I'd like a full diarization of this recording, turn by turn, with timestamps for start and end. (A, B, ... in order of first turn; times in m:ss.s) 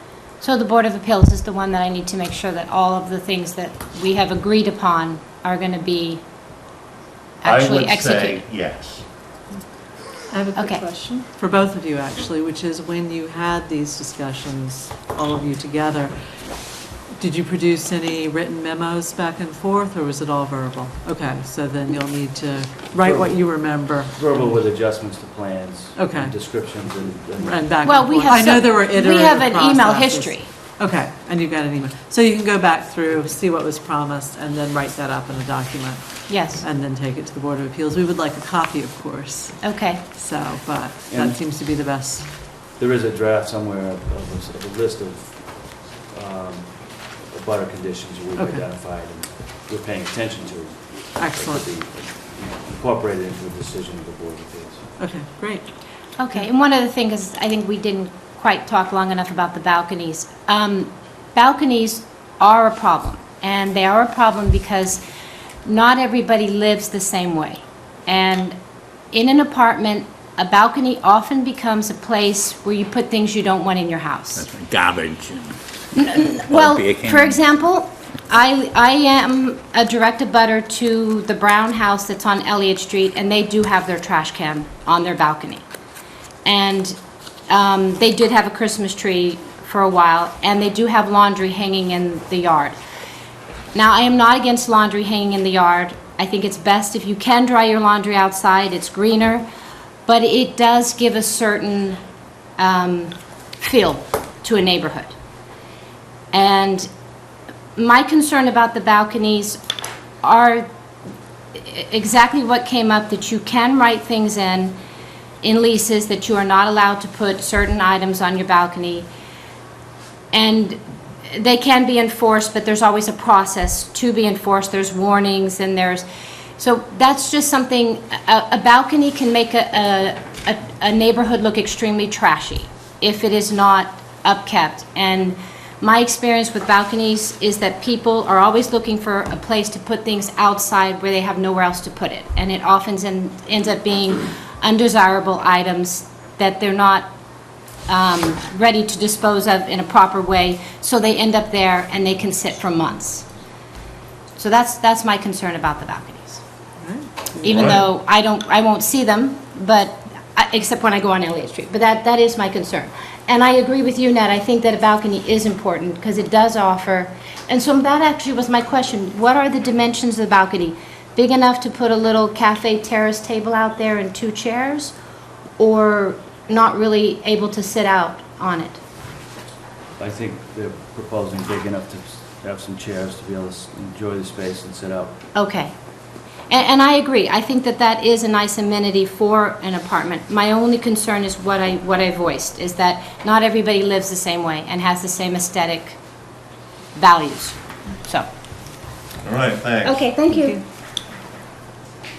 0:00.4-0:06.2 A
0:07.4-0:08.4 A
0:07.4-0:09.0 B
0:10.3-0:16.2 C
0:10.5-0:10.9 A
0:17.2-0:24.1 C
0:23.0-0:23.4 D
0:24.1-0:28.3 D
0:25.9-0:26.3 C
0:27.4-0:42.3 C
0:27.8-0:30.5 A
0:36.3-0:36.6 A
0:39.6-0:40.0 A
0:41.1-0:41.4 D
0:42.7-0:54.9 D
0:48.3-0:48.6 C
0:51.1-0:51.6 C
0:55.0-0:55.7 C
0:56.2-1:05.0 A
1:05.6-1:08.6 A
1:09.1-1:14.4 A
1:14.3-1:17.5 E
1:15.9-1:25.6 A
1:26.4-1:32.8 A
1:33.7-1:39.4 A
1:40.0-1:42.0 A
1:42.6-1:45.1 A
1:46.3-1:46.9 A
1:47.8-1:49.6 A
1:50.2-1:50.7 A
1:51.5-1:54.8 A
1:55.4-1:59.1 A
2:00.3-2:06.0 A
2:06.6-2:27.1 A
2:27.9-2:33.2 A
2:34.4-2:36.4 A
2:36.8-2:37.6 C
2:37.4-2:54.9 A
2:37.4-2:37.8 B
2:55.6-2:58.8 A
3:00.0-3:05.2 D
3:05.3-3:05.7 A
3:06.5-3:16.0 A
3:16.9-3:18.3 A
3:19.2-3:20.1 B
3:19.8-3:20.6 A
3:20.3-3:20.6 C